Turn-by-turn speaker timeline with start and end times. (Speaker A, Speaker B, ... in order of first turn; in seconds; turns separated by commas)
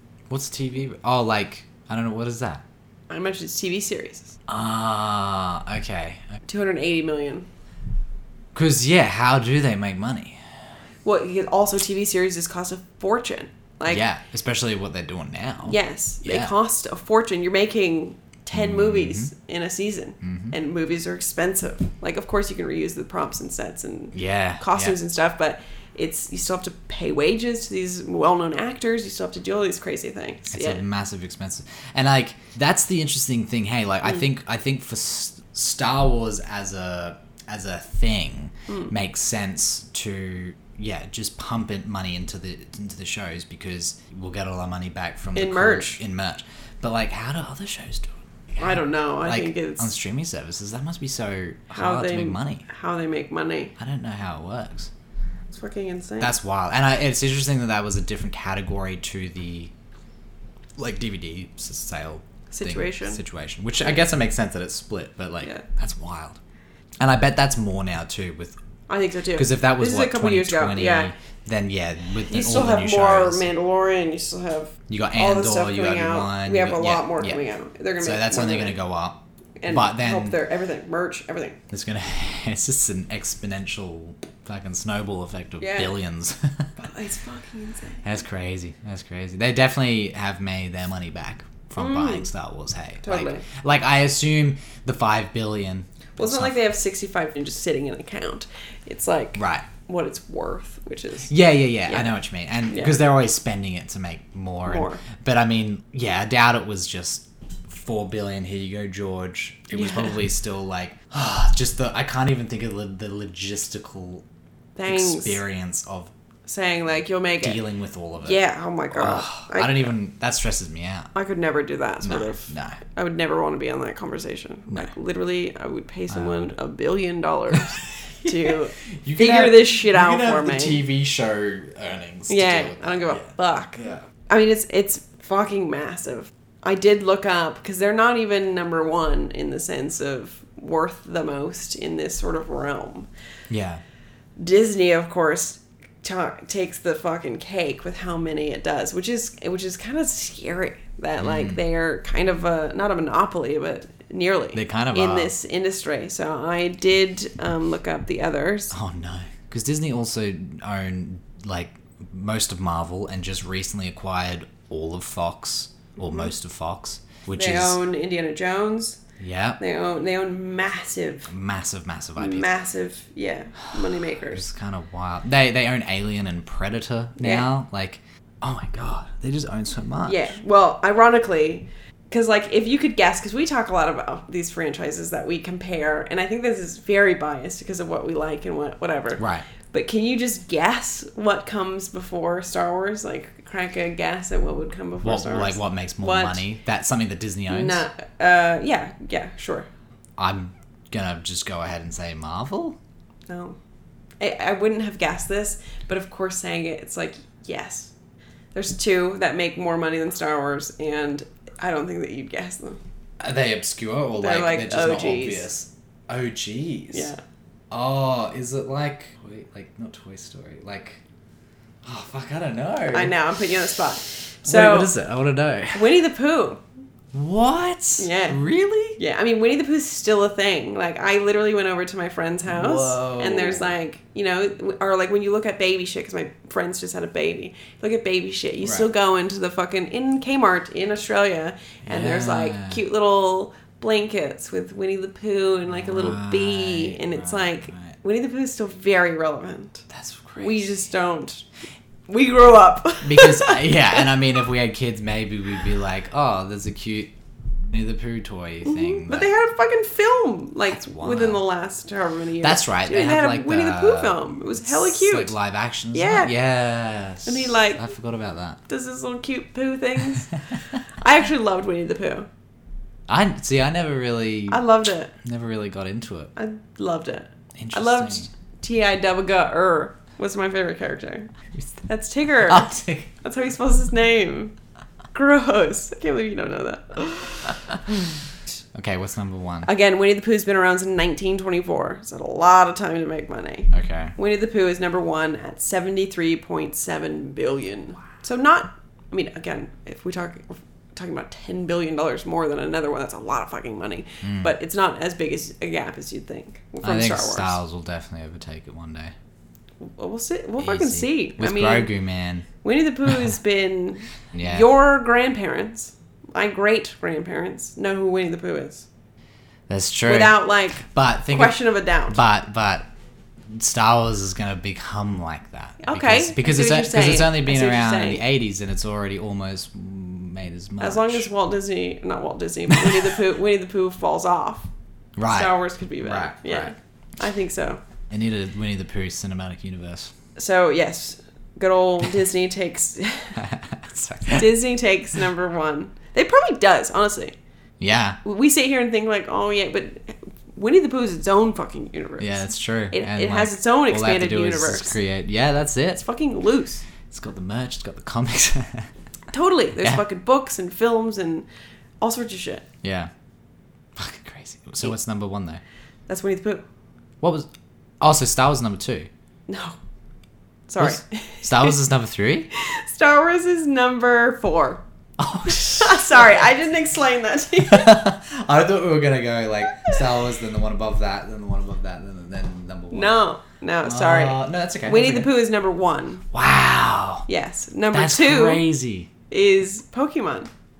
Speaker A: 0.3-2.6, Speaker B: 3.1-4.4, Speaker A: 4.5-6.2, Speaker B: 6.5-7.5, Speaker A: 8.5-10.4, Speaker B: 11.0-14.0, Speaker A: 13.9-16.5, Speaker B: 15.6-30.8, Speaker A: 18.5-19.3, Speaker A: 20.2-20.5, Speaker A: 24.1-25.0, Speaker A: 30.5-52.6, Speaker B: 45.3-46.0, Speaker B: 48.6-49.9, Speaker B: 51.7-53.7, Speaker A: 53.8-54.9, Speaker B: 55.5-56.3, Speaker A: 56.2-59.7, Speaker A: 60.8-66.4, Speaker B: 62.5-63.2, Speaker A: 67.0-68.6, Speaker B: 68.9-71.1, Speaker A: 69.3-73.5, Speaker B: 72.2-78.8, Speaker A: 74.9-77.4, Speaker A: 78.0-80.4, Speaker B: 79.6-81.6, Speaker A: 81.7-86.7, Speaker B: 85.6-85.9, Speaker B: 86.8-88.2, Speaker A: 88.0-96.6, Speaker B: 91.8-92.3, Speaker B: 93.0-93.5, Speaker B: 96.2-101.3, Speaker A: 99.3-99.7, Speaker A: 101.3-114.2, Speaker B: 101.9-102.1, Speaker B: 102.7-103.0, Speaker B: 104.7-105.0, Speaker B: 109.7-110.1, Speaker B: 114.8-115.4, Speaker A: 114.9-116.1, Speaker B: 116.5-117.6, Speaker A: 117.4-118.4, Speaker B: 118.2-119.9, Speaker A: 118.9-121.1, Speaker B: 121.1-130.8, Speaker A: 122.0-122.8, Speaker A: 126.1-126.5, Speaker A: 128.2-134.0, Speaker B: 132.3-143.1, Speaker A: 143.5-143.8, Speaker B: 144.4-158.7, Speaker A: 151.2-151.6, Speaker A: 154.5-155.3, Speaker A: 158.7-167.8, Speaker B: 166.0-166.3, Speaker B: 167.3-169.0, Speaker A: 169.2-169.6, Speaker B: 169.6-171.3, Speaker A: 171.3-172.5, Speaker B: 172.2-174.4, Speaker A: 174.2-180.3, Speaker B: 177.2-177.4, Speaker B: 180.1-196.4, Speaker A: 189.2-189.4, Speaker A: 195.0-197.8, Speaker B: 197.5-199.7, Speaker A: 200.2-202.8, Speaker B: 203.3-203.6, Speaker B: 204.2-207.9, Speaker B: 208.5-212.8, Speaker A: 213.2-217.1, Speaker B: 214.2-215.5, Speaker B: 216.9-217.2, Speaker A: 217.7-221.0, Speaker A: 221.8-223.2, Speaker B: 222.9-224.9, Speaker A: 224.4-225.9, Speaker B: 225.7-226.6, Speaker A: 227.1-229.0, Speaker B: 228.0-228.4, Speaker B: 229.0-249.8, Speaker A: 232.4-233.7, Speaker A: 238.6-238.9, Speaker A: 241.8-242.8, Speaker A: 245.7-247.9, Speaker A: 249.9-250.8, Speaker B: 250.4-251.4, Speaker B: 252.1-254.1, Speaker A: 253.0-257.1, Speaker A: 257.7-259.3, Speaker B: 258.6-265.3, Speaker A: 260.7-261.4, Speaker A: 262.4-268.6, Speaker B: 265.9-266.3, Speaker B: 267.2-267.8, Speaker B: 268.7-270.4, Speaker B: 271.0-272.3, Speaker A: 273.1-274.6, Speaker B: 274.5-275.1, Speaker A: 275.1-276.3, Speaker B: 276.4-281.3, Speaker A: 277.6-278.3, Speaker B: 281.8-284.5, Speaker A: 282.4-283.1, Speaker B: 285.1-287.7, Speaker A: 288.7-289.7, Speaker B: 289.6-307.6, Speaker A: 293.7-294.1, Speaker A: 304.2-304.5, Speaker A: 306.8-309.1, Speaker B: 309.8-311.9, Speaker A: 310.6-312.5, Speaker B: 312.6-318.9, Speaker A: 314.3-314.7, Speaker A: 319.7-321.6, Speaker B: 320.1-322.2, Speaker A: 322.1-322.9, Speaker A: 323.5-331.3, Speaker B: 325.8-328.2, Speaker B: 330.8-334.7, Speaker A: 332.7-333.2, Speaker A: 335.2-336.7, Speaker B: 335.2-337.8, Speaker A: 338.1-340.1, Speaker B: 340.4-343.4, Speaker A: 343.4-344.6, Speaker B: 344.3-347.3, Speaker A: 347.8-348.2, Speaker B: 348.2-355.0, Speaker A: 352.2-356.0, Speaker B: 355.9-356.8, Speaker A: 357.1-358.9, Speaker B: 359.3-361.5, Speaker A: 359.8-360.0, Speaker B: 362.0-362.6, Speaker A: 362.8-363.1, Speaker A: 363.9-365.6, Speaker B: 366.1-366.6, Speaker A: 367.2-367.5, Speaker A: 368.0-369.1, Speaker B: 369.5-369.8, Speaker B: 370.7-371.8, Speaker A: 370.8-372.5, Speaker B: 372.5-374.8, Speaker A: 375.2-376.5, Speaker B: 375.7-378.0, Speaker A: 377.6-383.1, Speaker B: 382.9-386.2, Speaker A: 383.8-385.3, Speaker A: 386.3-387.3, Speaker B: 387.3-388.6, Speaker A: 387.9-389.1, Speaker B: 389.3-390.5